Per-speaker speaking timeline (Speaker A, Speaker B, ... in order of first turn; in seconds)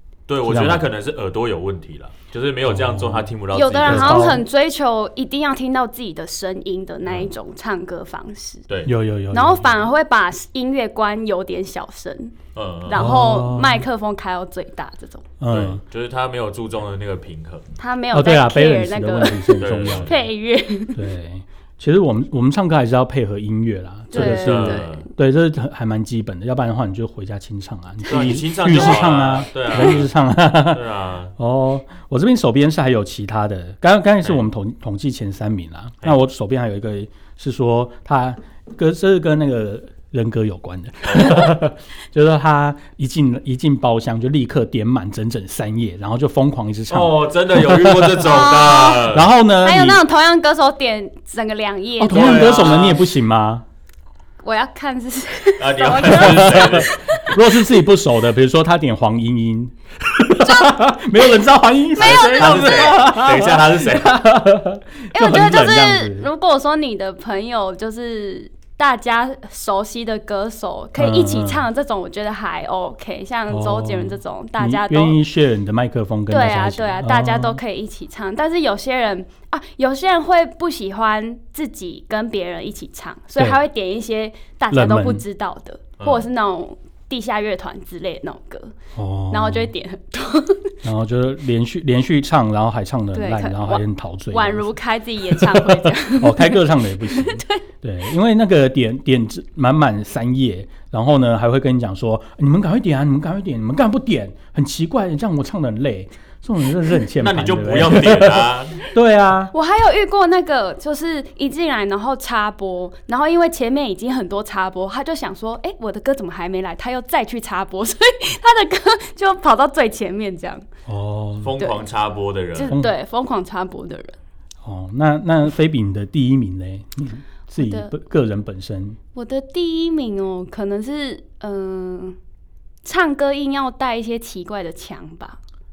Speaker A: 0.3-4.4, 7.1-7.3, 12.6-13.1, 15.5-17.6, 19.6-20.1, 24.1-25.1, 28.1-30.1, 30.7-31.3, 41.0-41.5, 46.9-49.3, 52.1-53.1, 55.6-57.1, 62.0-64.3, 86.0-86.3, 107.2-108.8, 121.4-122.8
Speaker B: 0.4-0.8, 2.7-3.3, 3.9-4.4, 8.9-9.8, 12.9-13.8, 15.4-15.8, 18.1-20.2, 20.9-30.8, 31.4-48.2, 49.1-50.0, 52.0-53.6, 56.1-66.3, 71.0-71.7, 73.5-77.6, 84.7-85.2, 89.0-89.7, 90.8-94.8, 95.3-108.4, 108.9-109.5, 120.9-121.5, 124.6-129.0
Speaker C: 3.5-8.7, 9.3-12.3, 12.9-15.3, 17.8-21.1, 24.1-25.1, 28.2-29.0, 48.2-52.8, 54.4-57.4, 60.4-60.9, 62.0-63.1, 65.1-75.2, 76.3-88.7, 89.3-90.8, 93.1-97.6, 109.5-120.7, 121.6-121.9, 122.5-124.2, 127.6-127.9, 129.2-132.2, 132.8-135.4